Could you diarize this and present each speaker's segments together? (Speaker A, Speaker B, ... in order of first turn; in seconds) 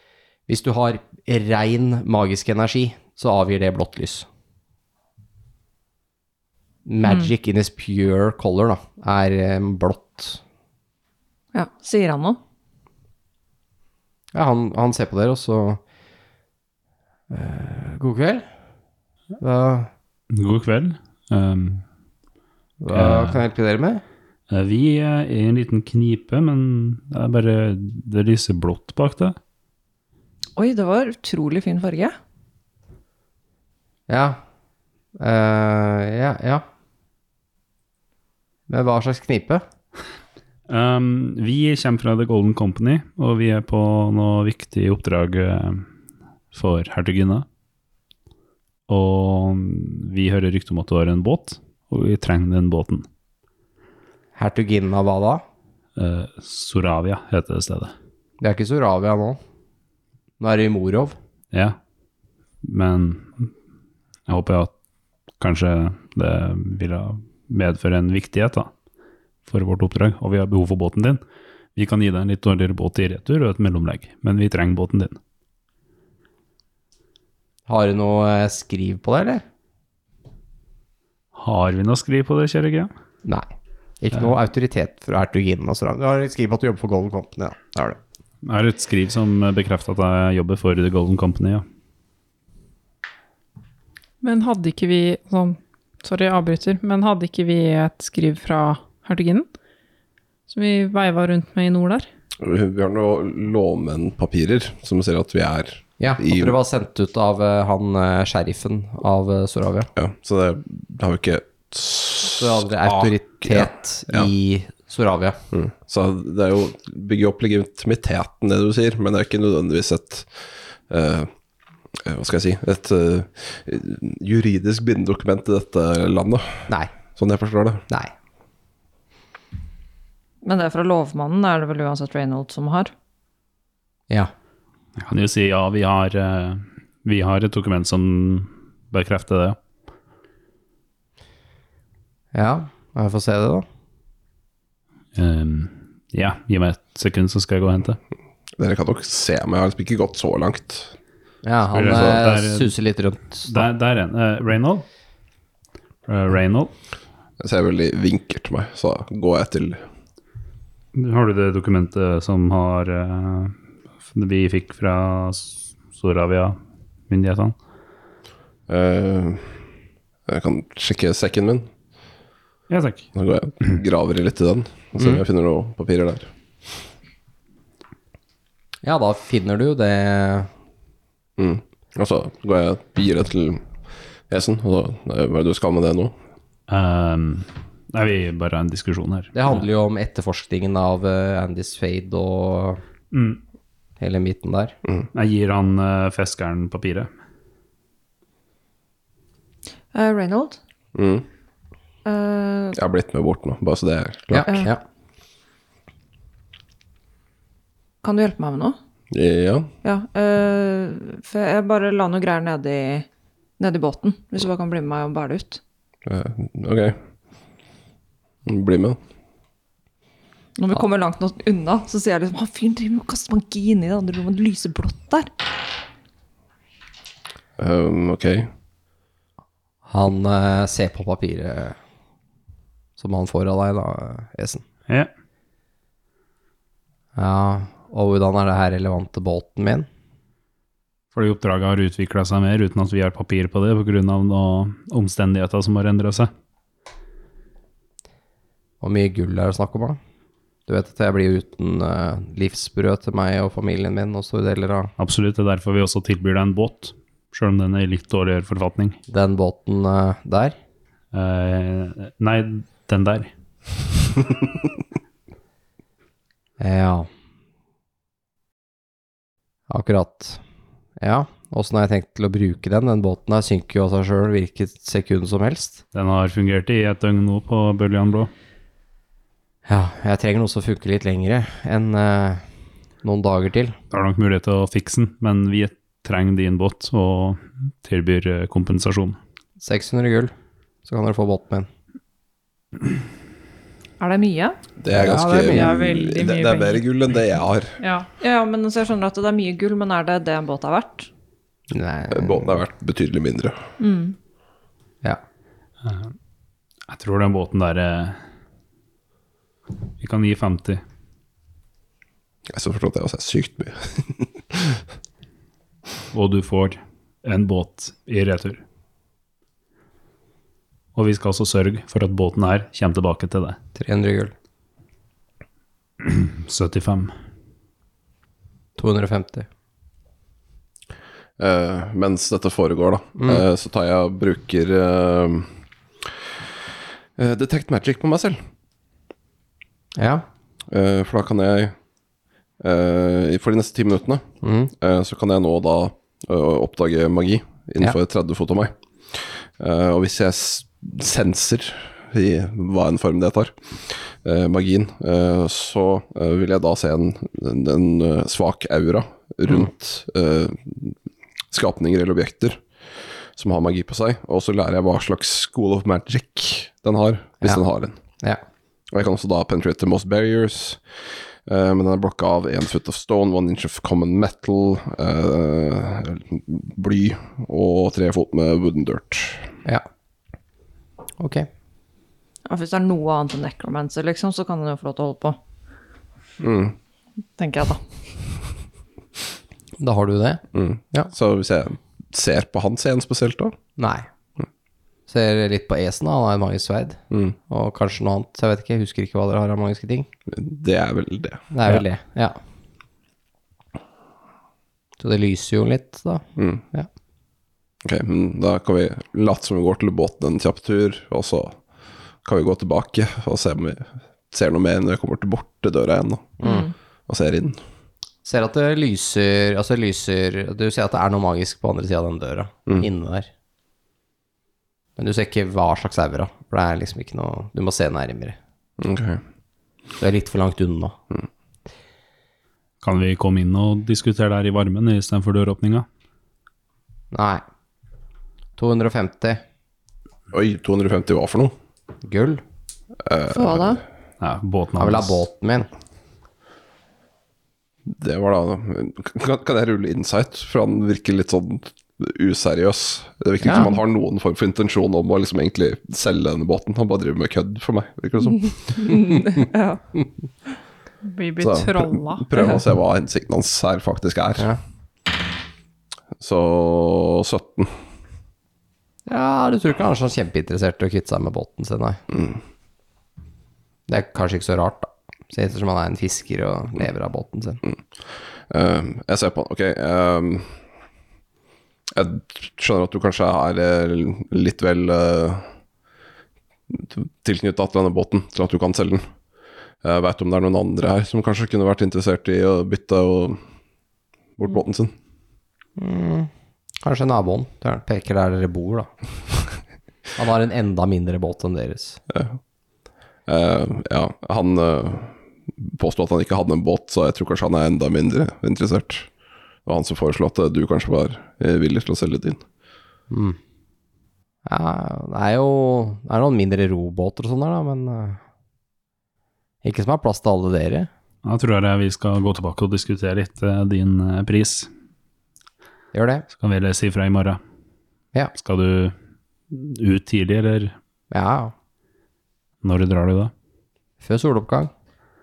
Speaker A: 0.5-4.3, 6.8-10.4, 14.3-15.8, 17.3-18.4, 19.4-19.9, 22.8-24.0, 34.1-34.4, 35.2-36.6, 38.7-39.6, 54.4-55.4, 58.4-59.4, 60.4-61.1, 77.7-79.4, 84.0-88.0, 106.0-109.9, 112.3-115.4, 142.3-143.6, 151.4-153.7, 178.8-180.5, 189.3-192.8, 194.0-194.8, 204.3-204.8, 229.9-231.8, 233.0-234.6, 237.2-239.9, 248.8-250.0, 250.7-254.9, 259.1-260.6, 266.6-267.1, 269.7-270.4, 271.0-275.8, 279.6-282.4, 283.0-283.7, 289.6-290.3, 290.8-291.7, 294.9-295.8, 301.7-302.6, 323.7-324.3, 328.8-329.5, 333.2-333.4, 339.9-340.2, 344.4-344.7, 381.2-381.5, 389.8-391.1, 393.8-394.1, 395.1-400.1, 401.5-402.4, 405.0-406.9, 416.4-416.7, 418.2-423.3, 425.0-428.4, 430.0-431.0, 437.1-437.4, 438.6-439.4, 442.0-442.4, 444.8-445.7, 453.4-453.7, 469.1-472.0, 473.9-477.6, 495.8-496.3, 496.8-498.9, 500.1-502.0, 513.1-513.4, 514.5-518.2, 519.6-520.9, 525.9-526.2, 531.1-531.5, 534.0-534.7
Speaker B: 7.0-7.3, 11.5-12.4, 30.6-32.1, 130.4-132.9, 199.9-200.6, 202.0-202.8, 208.0-208.8, 209.8-213.1, 213.6-215.6, 220.6-225.3, 294.0-294.6, 298.2-301.1, 303.8-304.1, 382.4-385.4, 387.4-387.8, 416.4-416.7, 443.3-443.8, 458.8-459.8
Speaker C: 20.3-21.8, 22.9-23.4, 24.5-29.4, 40.7-45.9, 46.5-47.5, 48.9-53.0, 56.0-57.9, 61.5-61.8, 62.6-63.5, 64.3-64.7, 65.4-68.7, 69.5-71.2, 71.7-75.2, 81.3-82.9, 88.4-91.6, 135.0-139.6, 145.1-148.0, 151.7-152.7, 153.4-154.8, 156.1-156.7, 160.9-163.6, 164.1-166.6, 167.1-167.5, 172.7-173.1, 186.7-189.5, 193.1-193.4, 195.1-197.1, 241.1-246.3, 255.0-259.0, 261.1-263.3, 275.9-278.3, 283.9-289.2, 305.8-306.1, 306.9-308.2, 310.0-310.8, 316.1-318.6, 320.9-323.6, 326.0-327.1, 432.8-435.9, 444.2-445.2, 521.2-524.7, 526.4-527.4, 528.4-528.9, 529.5-530.7, 532.6-533.3
Speaker D: 94.2-99.5, 100.5-102.0, 295.4-296.8, 297.8-298.1, 461.0-462.4
Speaker E: 102.4-106.6, 110.0-114.3, 115.5-121.3, 121.9-127.8, 148.6-150.9, 157.4-159.8, 168.7-169.6, 170.3-171.7, 173.1-176.3, 181.4-183.6, 184.3-186.1, 200.9-201.2, 202.7-204.6, 209.1-209.7, 216.0-217.0, 218.4-219.0, 227.6-228.5, 294.8-297.8, 302.1-303.6, 312.5-314.8, 331.4-336.1, 337.1-338.4, 340.7-341.7, 342.6-344.2, 344.8-360.9, 361.5-362.6, 363.3-367.9, 368.9-379.5, 386.4-386.8, 390.5-393.6, 400.3-401.5, 406.4-406.6, 407.8-411.6, 412.2-416.4, 417.1-417.6, 428.8-429.2, 440.3-441.5, 443.0-443.8, 447.9-458.9, 461.4-464.5, 466.2-467.8, 472.1-472.4, 478.5-480.5, 481.9-485.5, 486.7-489.1, 489.8-493.4, 494.4-494.9, 502.1-502.4, 503.2-509.1, 509.6-512.4